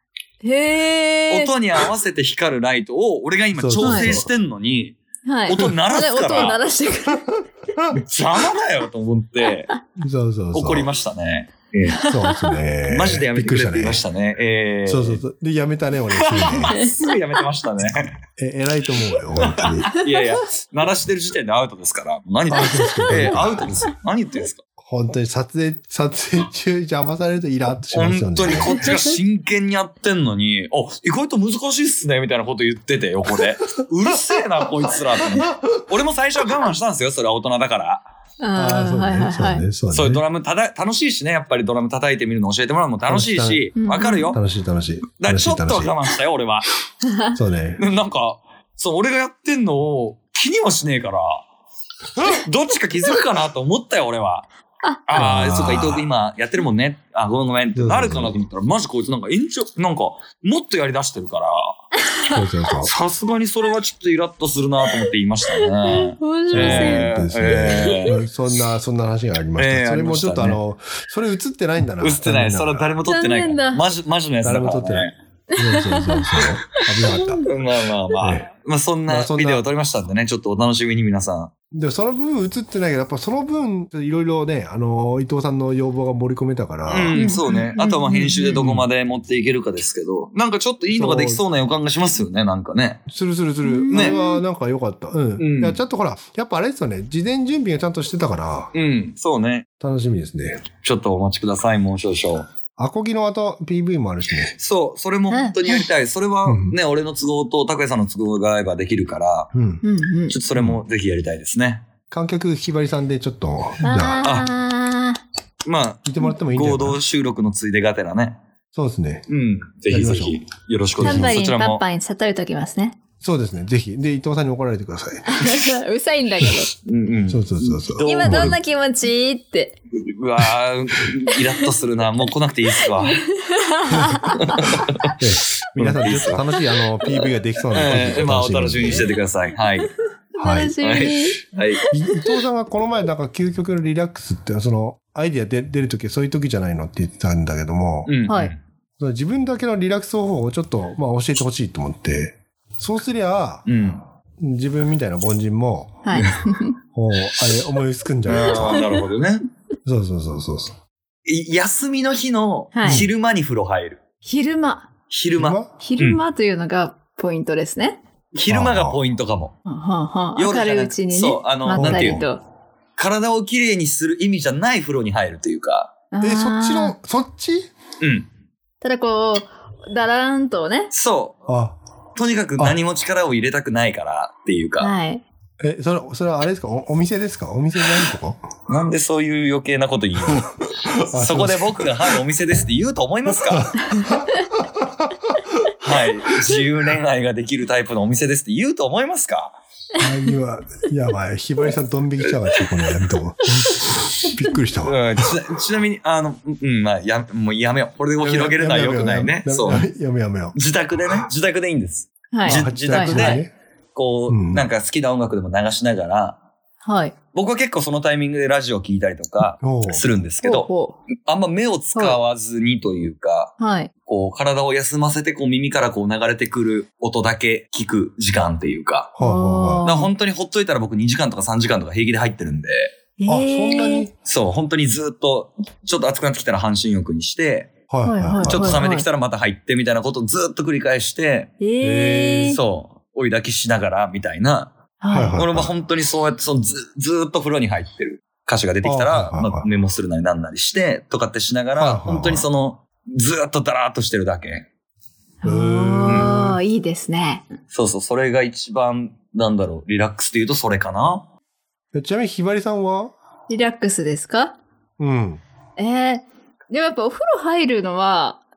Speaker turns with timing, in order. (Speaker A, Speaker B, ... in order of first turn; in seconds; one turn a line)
Speaker A: 0.4-1.5
Speaker B: 1.3-6.6
Speaker C: 3.5-4.3
Speaker A: 3.8-4.2
Speaker A: 5.2-7.4
Speaker B: 8.0-9.7
Speaker C: 10.0-10.9
Speaker B: 10.5-12.1
Speaker A: 11.9-12.5
Speaker C: 12.1-14.0
Speaker B: 12.9-15.2
Speaker C: 14.8-16.8
Speaker B: 16.2-18.1
Speaker A: 16.7-17.1
Speaker C: 18.4-19.9
Speaker B: 19.3-24.6
Speaker C: 22.5-23.7
Speaker C: 24.8-28.9
Speaker B: 27.9-38.0
Speaker A: 28.5-29.1
Speaker A: 38.4-39.6
Speaker C: 38.5-40.2
Speaker B: 39.9-44.4
Speaker C: 43.0-45.9
Speaker A: 43.8-44.2
Speaker B: 45.2-46.6
Speaker A: 47.0-47.3
Speaker C: 47.3-47.8
Speaker B: 47.8-51.4
Speaker B: 52.2-54.5
Speaker B: 55.0-61.8
Speaker C: 55.1-56.0
Speaker C: 57.7-58.4
Speaker C: 62.3-62.9
Speaker B: 62.8-68.2
Speaker A: 65.5-67.1
Speaker C: 66.5-72.9
Speaker B: 69.6-70.6
Speaker B: 72.0-75.1
Speaker A: 73.0-73.8
Speaker C: 74.4-77.4
Speaker A: 75.5-77.5
Speaker B: 77.4-81.5
Speaker C: 79.1-79.7
Speaker C: 81.7-87.3
Speaker B: 86.9-93.0
Speaker A: 87.1-88.6
Speaker C: 88.5-88.8
Speaker C: 90.9-91.4
Speaker C: 93.1-98.7
Speaker A: 93.6-94.4
Speaker B: 93.9-94.2
Speaker B: 95.4-95.8
Speaker B: 98.7-99.6
Speaker C: 99.8-100.6
Speaker B: 100.8-102.5
Speaker C: 102.8-104.5
Speaker B: 104.6-109.5
Speaker A: 105.3-105.8
Speaker C: 106.5-106.8
Speaker C: 109.5-109.8
Speaker A: 109.8-110.3
Speaker B: 110.3-111.8
Speaker C: 110.5-110.8
Speaker C: 112.1-114.2
Speaker A: 113.8-115.2
Speaker B: 114.2-114.5
Speaker B: 115.6-118.4
Speaker C: 116.0-117.0
Speaker C: 118.7-119.2
Speaker B: 119.3-121.8
Speaker C: 119.9-120.4
Speaker C: 121.0-121.4
Speaker A: 121.0-123.0
Speaker C: 123.2-125.5
Speaker A: 125.3-126.7
Speaker B: 126.8-128.6
Speaker C: 127.3-128.6
Speaker A: 128.0-129.8
Speaker B: 129.9-133.2
Speaker A: 132.9-135.1
Speaker B: 134.2-136.4
Speaker C: 135.2-139.1
Speaker B: 137.7-139.9
Speaker A: 140.3-142.2
Speaker C: 140.4-140.7
Speaker B: 140.8-141.9
Speaker C: 141.9-148.2
Speaker B: 148.1-148.6
Speaker A: 148.3-148.5
Speaker C: 149.0-153.7
Speaker B: 153.7-154.0
Speaker C: 154.4-156.1
Speaker A: 156.0-156.8
Speaker C: 156.9-158.9
Speaker B: 158.2-159.4
Speaker A: 158.4-158.9
Speaker C: 159.8-160.8
Speaker B: 161.2-164.0
Speaker A: 162.7-163.1
Speaker C: 162.8-163.1
Speaker A: 164.2-164.9
Speaker B: 165.1-166.2
Speaker C: 165.3-165.7
Speaker A: 165.8-168.0
Speaker B: 168.3-169.6
Speaker C: 168.5-169.0
Speaker A: 169.7-172.4
Speaker B: 170.3-172.2
Speaker C: 171.7-172.2
Speaker B: 173.0-175.9
Speaker A: 176.1-176.9
Speaker C: 176.2-177.7
Speaker B: 178.0-178.3
Speaker A: 178.8-180.9
Speaker B: 180.9-181.4
Speaker C: 181.5-181.8
Speaker B: 182.2-184.9
Speaker A: 184.8-185.2
Speaker C: 185.6-188.4
Speaker B: 188.7-193.7
Speaker C: 190.3-192.0
Speaker C: 193.5-195.4
Speaker A: 193.8-194.5
Speaker B: 195.8-199.6
Speaker A: 199.9-200.3
Speaker C: 200.0-205.3
Speaker B: 202.2-203.0
Speaker B: 204.8-209.9
Speaker C: 208.2-210.6
Speaker B: 210.5-216.4
Speaker A: 212.3-213.4
Speaker C: 212.4-213.5
Speaker C: 214.3-214.7
Speaker A: 216.8-217.1
Speaker B: 217.3-229.2
Speaker C: 219.6-220.0
Speaker A: 220.4-221.0
Speaker A: 223.6-223.9
Speaker C: 229.2-229.8
Speaker A: 229.2-230.1
Speaker B: 229.8-232.9
Speaker A: 233.2-234.1
Speaker C: 233.3-234.1
Speaker B: 234.2-237.8
Speaker C: 237.9-238.9
Speaker A: 238.0-239.1
Speaker B: 238.3-241.5
Speaker A: 241.6-242.6
Speaker C: 241.8-242.6
Speaker B: 242.4-244.7
Speaker A: 245.0-245.4
Speaker C: 245.1-245.7
Speaker B: 245.3-254.7
Speaker C: 248.8-249.7
Speaker C: 251.8-252.5
Speaker A: 255.4-257.4
Speaker C: 255.4-256.6
Speaker B: 256.1-256.4
Speaker B: 257.7-261.3
Speaker C: 261.9-263.1
Speaker A: 263.5-264.6
Speaker C: 265.0-265.4
Speaker A: 265.8-268.4